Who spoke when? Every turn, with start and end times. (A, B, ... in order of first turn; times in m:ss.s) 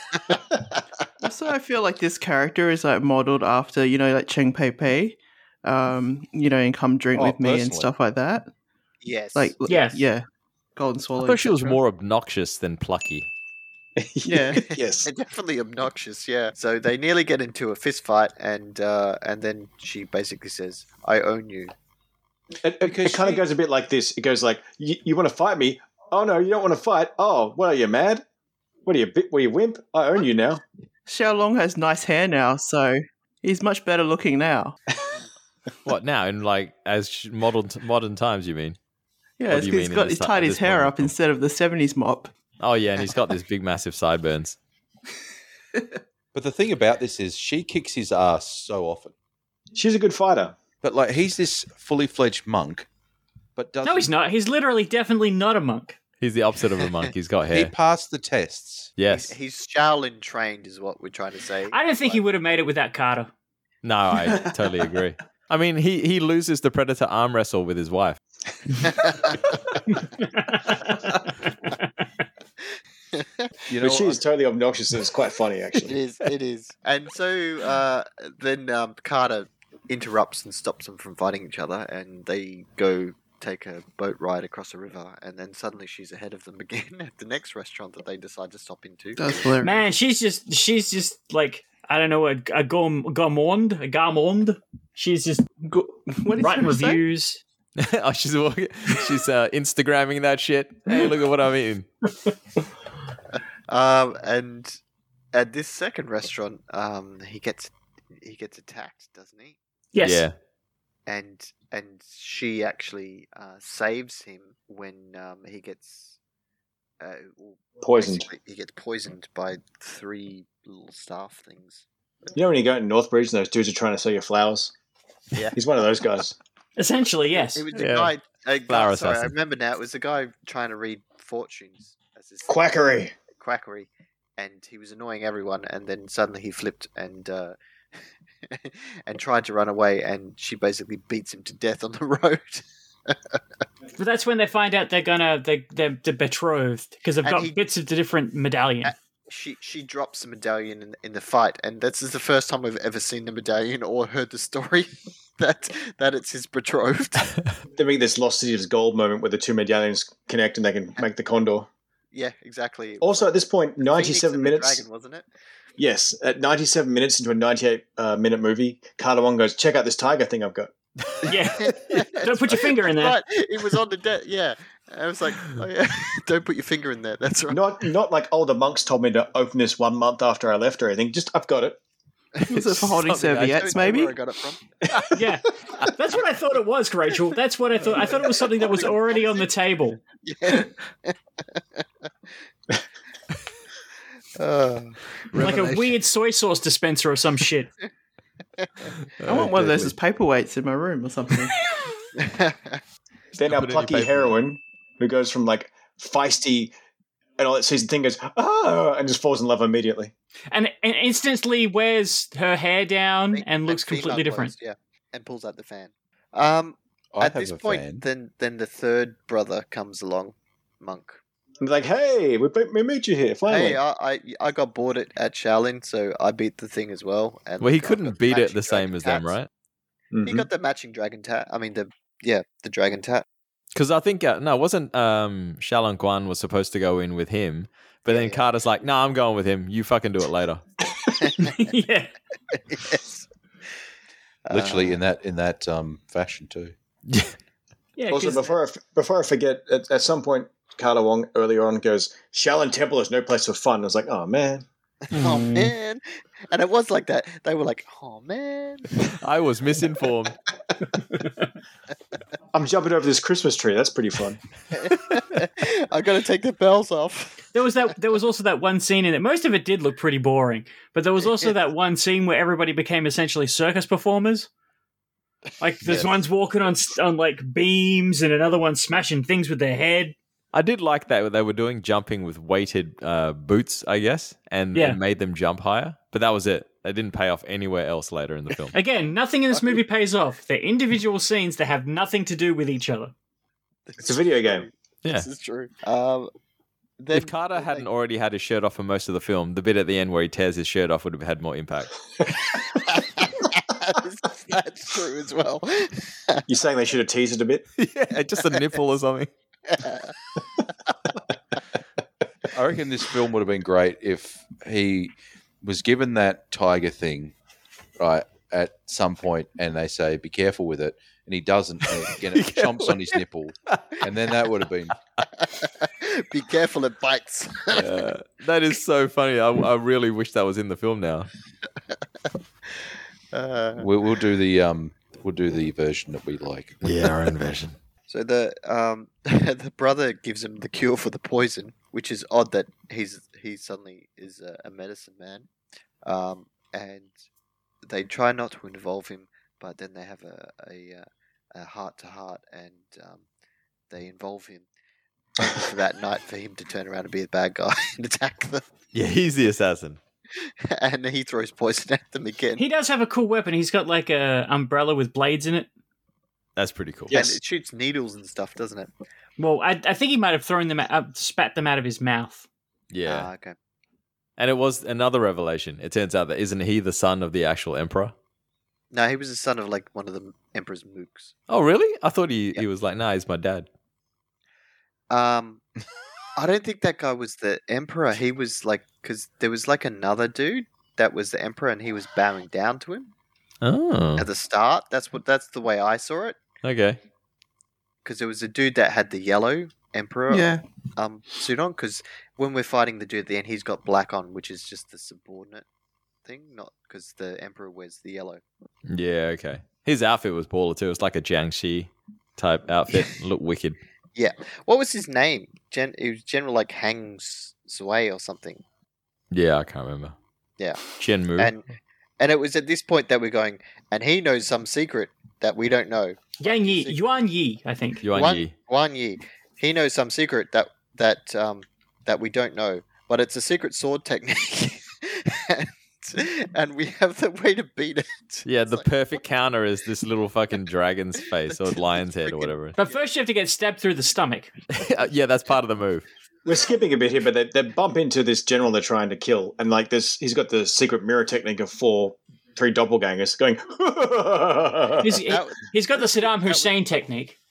0:01.2-0:08.5 A
0:07.1-0:07.9 B
0:09.0-0:09.6 C
0:09.4-0:10.2 A
0:09.7-0:10.0 D
0:10.8-0:11.8 A
0:11.2-0:13.3 E
0:14.0-0:15.1 F
0:14.3-0:14.6 A
0:14.6-0:21.7 C
0:22.6-0:28.2 F
0:22.8-0:23.4 B
0:28.9-0:30.6 F
0:31.1-0:34.8 A
0:35.8-0:38.8 E
0:39.4-0:42.3 A
0:39.5-0:41.1 E
0:42.6-0:44.6 E
0:46.3-0:49.1 B
0:49.8-0:50.6 F
0:50.8-0:52.9 B
0:53.6-0:54.1 B
0:53.8-0:56.0 D
0:56.2-0:57.7 E
0:57.5-0:58.9 B
0:59.0-0:59.4 E
0:59.1-1:02.2 C
1:01.7-1:03.3 D
1:03.8-1:08.2 E
1:08.8-1:09.4 C
1:10.2-1:11.1 D
1:11.6-1:11.9 D
1:13.1-1:13.5 C
1:13.7-1:14.2 B
1:13.8-1:16.0 F
1:15.8-1:29.5 C
1:29.2-1:29.8 A
1:29.6-1:35.5 D
1:35.6-1:37.0 A
1:36.4-1:37.4 D
1:37.8-1:41.9 E
1:43.7-1:44.8 C
1:45.3-1:49.6 C
1:49.9-1:50.3 D
1:50.0-1:50.3 E
1:51.1-1:56.2 C
1:57.0-2:02.3 C
1:57.8-1:58.3 F
2:02.3-2:04.7 F
2:05.6-2:06.4 F
2:06.8-2:07.7 D
2:07.5-2:12.8 C
2:07.8-2:08.1 E
2:08.7-2:09.3 E
2:12.5-2:13.1 F
2:13.4-2:17.6 C
2:18.5-2:23.4 C
2:24.0-2:28.9 D
2:27.2-2:27.6 C
2:28.8-2:37.4 C
2:37.8-2:41.7 F
2:42.1-2:45.3 C
2:43.0-2:44.8 F
2:45.8-2:50.7 F
2:51.2-2:57.7 C
2:51.2-2:53.2 D
2:57.5-3:01.8 F
3:02.4-3:04.6 C
3:02.5-3:04.2 A
3:03.0-3:03.6 E
3:04.9-3:05.2 F
3:05.1-3:10.0 D
3:07.9-3:09.5 C
3:10.2-3:11.8 C
3:14.4-3:15.2 C
3:15.3-3:15.9 E
3:15.4-3:17.7 D
3:19.2-3:20.0 E
3:19.3-3:21.5 A
3:22.2-3:22.8 C
3:23.4-3:24.4 E
3:23.4-3:26.7 F
3:27.4-3:30.1 F
3:30.5-3:34.5 D
3:33.3-3:41.2 C
3:37.1-3:38.0 B
3:41.6-3:43.8 F
3:43.5-3:49.4 C
3:47.6-3:49.5 E
3:50.1-3:50.5 F
3:50.2-3:53.2 C
3:53.8-4:00.6 E
3:58.1-3:58.5 C
4:01.2-4:01.6 C
4:01.4-4:02.1 D
4:02.5-4:03.3 C
4:04.5-4:05.0 C
4:04.5-4:06.7 B
4:07.1-4:07.3 E
4:08.0-4:08.6 D
4:08.1-4:14.6 F
4:15.1-4:19.0 C
4:19.1-4:20.4 E
4:22.5-4:24.4 F
4:24.7-4:27.5 C
4:27.5-4:34.5 D
4:35.6-4:40.1 D
4:40.5-4:48.8 E
4:44.7-4:45.0 D
4:48.7-4:53.1 D
4:53.9-4:56.3 C
4:54.0-4:54.7 F
4:57.0-4:57.9 C
4:57.1-5:01.9 E
5:02.5-5:06.4 C
5:06.5-5:07.6 F
5:07.8-5:09.3 E
5:09.7-5:10.1 C
5:12.5-5:17.4 B
5:18.0-5:25.0 B
5:22.3-5:23.2 E
5:25.4-5:27.9 C
5:27.7-5:31.3 E
5:33.3-5:33.9 C
5:33.8-5:36.8 B
5:36.8-5:37.8 E
5:38.1-5:45.5 C
5:46.0-5:47.1 C
5:47.9-5:53.3 C
5:53.9-5:54.7 C
5:55.4-5:58.6 C
5:58.9-6:00.0 E
6:00.4-6:02.6 C
6:02.6-6:05.7 D
6:06.6-6:07.2 E
6:07.1-6:07.4 F
6:07.1-6:08.9 C
6:09.4-6:12.5 D
6:12.9-6:13.3 E
6:13.1-6:13.6 C
6:14.4-6:18.1 E
6:18.9-6:21.4 C
6:21.5-6:23.7 E
6:25.1-6:25.6 C
6:26.4-6:33.1 C
6:33.6-6:34.3 E
6:34.2-6:36.4 C
6:36.6-6:37.0 E
6:38.0-6:45.6 C
6:40.3-6:40.6 A
6:46.2-6:48.4 C
6:48.9-6:53.8 E
6:54.1-6:58.6 C
6:59.3-7:00.2 E
7:00.6-7:00.9 C
7:01.0-7:01.5 E
7:01.4-7:01.7 C
7:02.2-7:07.2 C
7:06.4-7:08.0 D
7:08.0-7:08.5 E
7:08.1-7:18.9 C
7:18.4-7:22.8 E
7:21.5-7:23.0 C
7:22.8-7:24.5 D
7:24.7-7:26.1 E
7:26.5-7:35.1 F
7:35.0-7:37.4 D
7:35.1-7:36.7 C